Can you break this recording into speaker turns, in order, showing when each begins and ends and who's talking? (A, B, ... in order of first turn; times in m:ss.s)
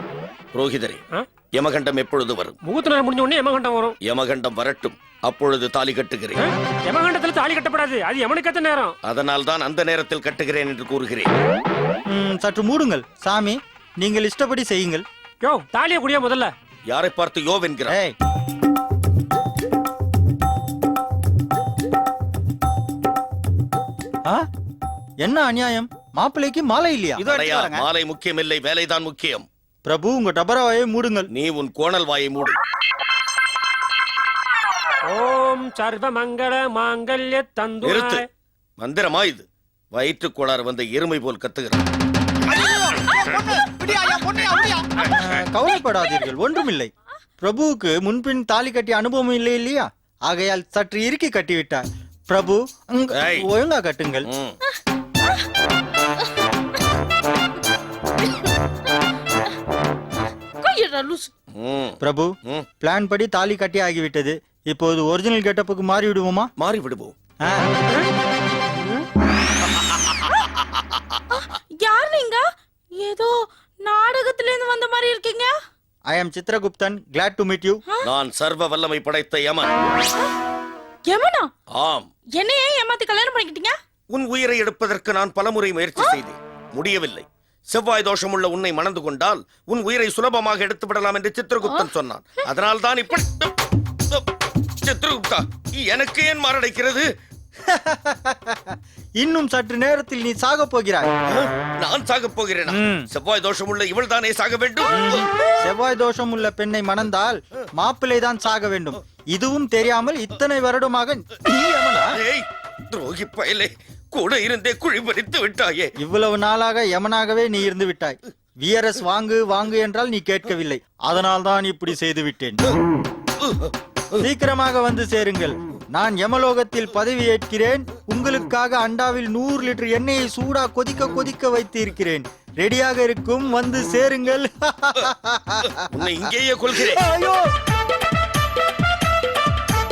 0:00.5-0:01.0 A
0:01.5-0:02.6 A
0:02.6-0:04.0 B
0:04.0-0:06.4 A
0:06.4-0:08.9 B
0:09.0-0:11.3 A
0:12.1-0:15.0 C
0:15.4-0:16.5 B
0:16.9-0:17.9 A
0:17.9-0:18.1 C
0:25.2-0:27.2 C
0:27.2-0:27.8 D
0:27.2-0:29.4 A
0:29.8-0:31.3 C
0:31.3-0:32.6 A
0:35.1-0:38.2 B
0:37.8-0:38.2 A
0:38.8-0:41.8 A
0:42.4-0:44.9 D
0:45.1-0:54.3 C
0:53.2-0:53.5 A
0:54.2-0:54.6 A
1:00.6-1:01.3 E
1:01.5-1:02.7 A
1:02.0-1:06.5 C
1:06.6-1:07.1 A
1:11.3-1:12.4 E
1:13.0-1:15.6 E
1:16.1-1:17.8 C
1:18.0-1:19.7 A
1:21.1-1:21.5 E
1:21.7-1:22.1 A
1:22.4-1:23.7 E
1:24.1-1:33.5 A
1:31.6-1:31.9 E
1:34.8-1:37.1 A
1:37.7-1:41.1 C
1:41.3-1:45.3 A
1:42.7-1:43.1 C
1:44.9-1:52.2 C
1:52.1-1:55.9 A
1:56.0-2:02.6 C
2:03.4-2:04.2 A
2:04.2-2:16.0 C
2:15.9-2:17.0 A
2:16.7-2:17.4 C